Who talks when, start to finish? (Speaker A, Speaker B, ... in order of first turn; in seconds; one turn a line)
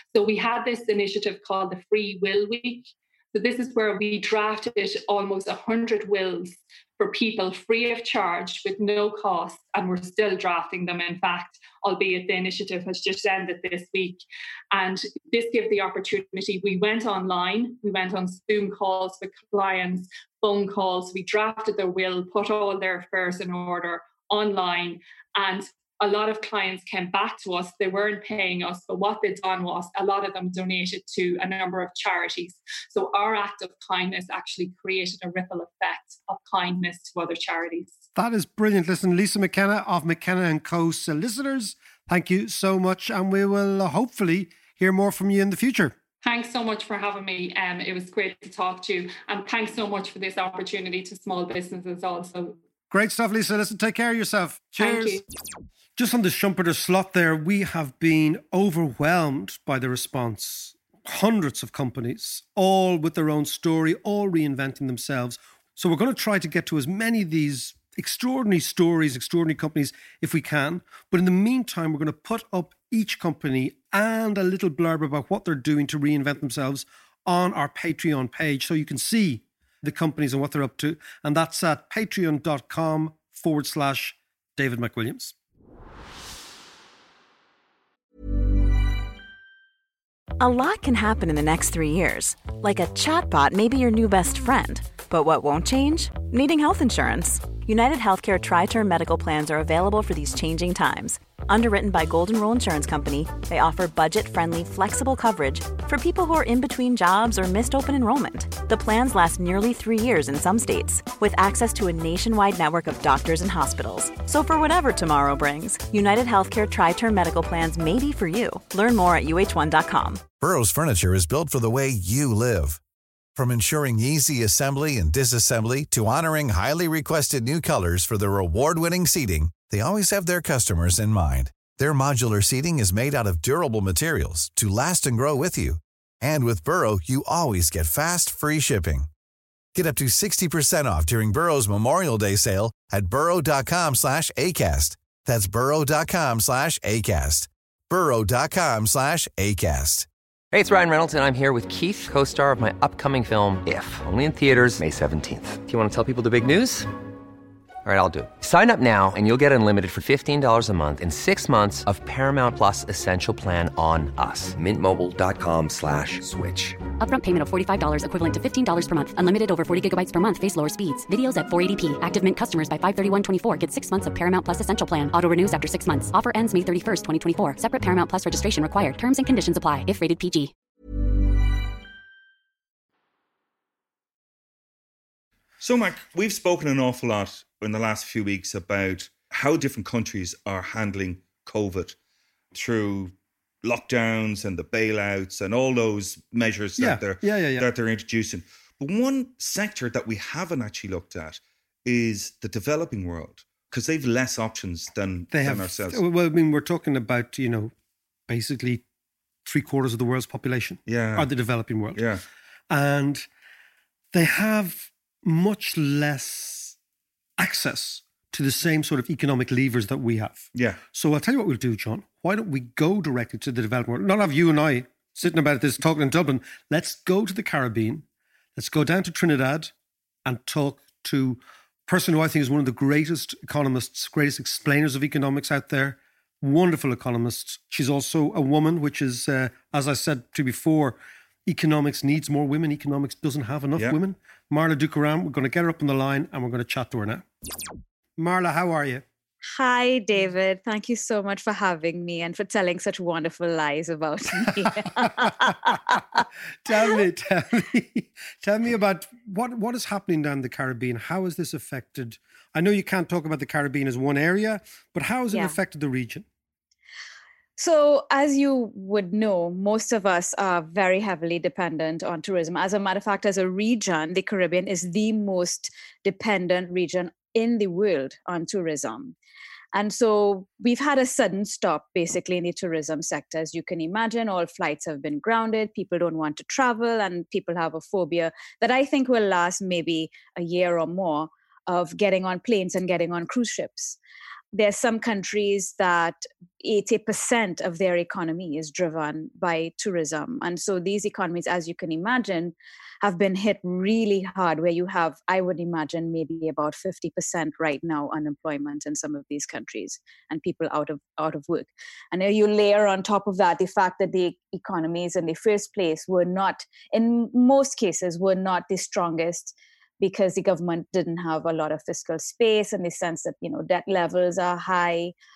Speaker A: 0.1-38.0
Speaker B: 38.1-46.0
Speaker A: 46.2-52.6
Speaker B: 52.9-55.2
Speaker A: 54.8-55.2
Speaker B: 56.0-85.3
Speaker C: 90.4-120.2
Speaker D: 120.4-122.8
Speaker D: 123.4-139.1
Speaker D: 139.7-150.1
Speaker E: 150.5-156.9
Speaker E: 157.8-166.8
Speaker F: 167.0-180.5
Speaker G: 185.6-191.9
Speaker G: 192.5-206.0
Speaker B: 196.8-197.7
Speaker B: 205.3-207.7
Speaker B: 208.3-208.8
Speaker B: 209.4-212.0
Speaker G: 210.9-211.3
Speaker G: 211.9-212.2
Speaker B: 212.7-213.3
Speaker B: 214.1-216.8
Speaker B: 217.4-229.7
Speaker G: 220.6-220.8
Speaker B: 230.2-247.3
Speaker B: 248.2-249.1
Speaker H: 249.5-257.0
Speaker B: 256.6-266.3
Speaker H: 265.3-265.6
Speaker H: 267.6-279.1
Speaker H: 279.7-294.0
Speaker H: 294.5-325.1